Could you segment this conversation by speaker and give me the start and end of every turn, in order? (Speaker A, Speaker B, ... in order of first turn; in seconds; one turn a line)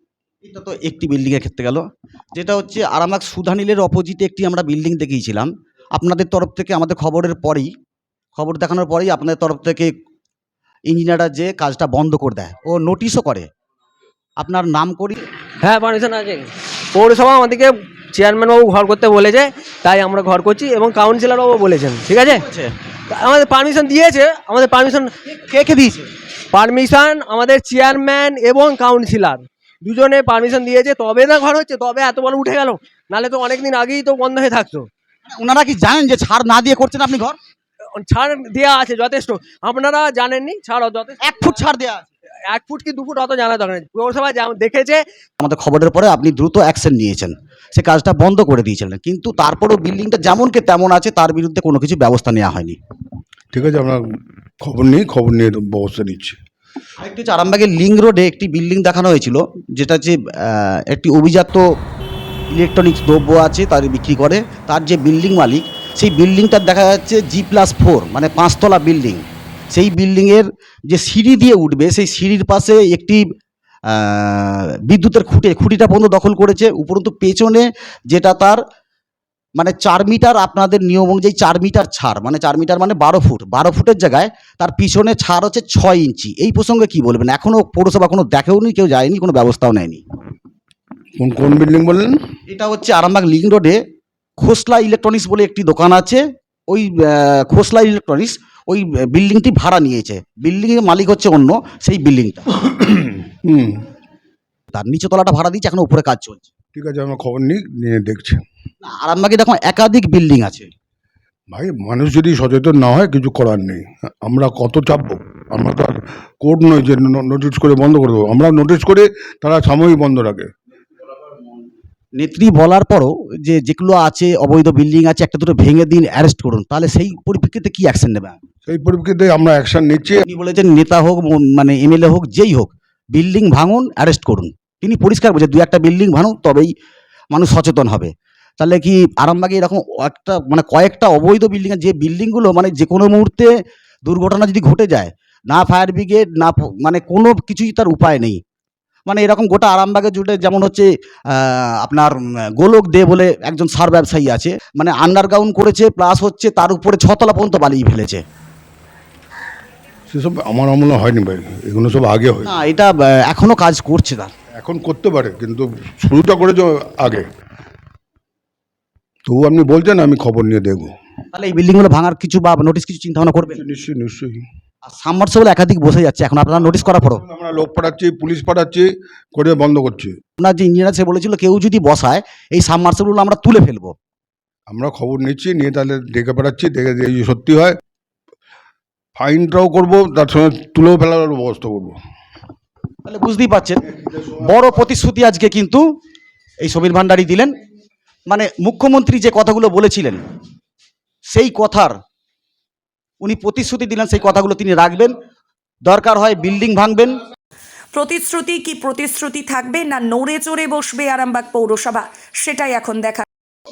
Speaker A: 0.5-7.7
Speaker A: 8.4-9.9
Speaker A: 10.9-13.5
Speaker A: 14.4-15.2
Speaker B: 15.6-22.4
Speaker A: 22.2-22.8
Speaker B: 23.1-25.2
Speaker A: 25.3-26.1
Speaker B: 26.5-34.9
Speaker A: 35.3-37.4
Speaker B: 37.9-41.2
Speaker A: 41.2-42.1
Speaker B: 42.5-45.0
Speaker A: 45.4-52.8
Speaker C: 53.5-54.0
Speaker C: 54.6-56.4
Speaker A: 57.0-61.7
Speaker A: 62.5-73.2
Speaker A: 73.9-78.6
Speaker A: 79.6-90.0
Speaker C: 91.2-92.2
Speaker A: 92.5-93.8
Speaker A: 94.4-102.5
Speaker C: 102.8-103.8
Speaker A: 104.7-106.5
Speaker C: 106.7-108.4
Speaker A: 108.8-110.7
Speaker C: 111.5-120.5
Speaker A: 122.2-128.4
Speaker C: 128.6-130.3
Speaker A: 130.2-136.7
Speaker A: 137.3-143.5
Speaker A: 144.1-148.4
Speaker A: 149.1-158.2
Speaker C: 160.1-162.5
Speaker A: 162.4-164.3
Speaker C: 164.5-167.3
Speaker C: 169.3-170.9
Speaker A: 171.3-173.6
Speaker C: 173.5-174.4
Speaker A: 174.8-177.2
Speaker C: 176.7-180.2
Speaker A: 180.4-183.9
Speaker C: 184.7-187.8
Speaker C: 189.2-192.0
Speaker A: 193.1-193.8
Speaker C: 194.0-194.8
Speaker A: 194.4-195.8
Speaker A: 196.6-197.6
Speaker A: 198.3-200.2
Speaker A: 201.3-201.9
Speaker A: 203.2-205.2
Speaker A: 205.8-207.2
Speaker D: 207.9-213.2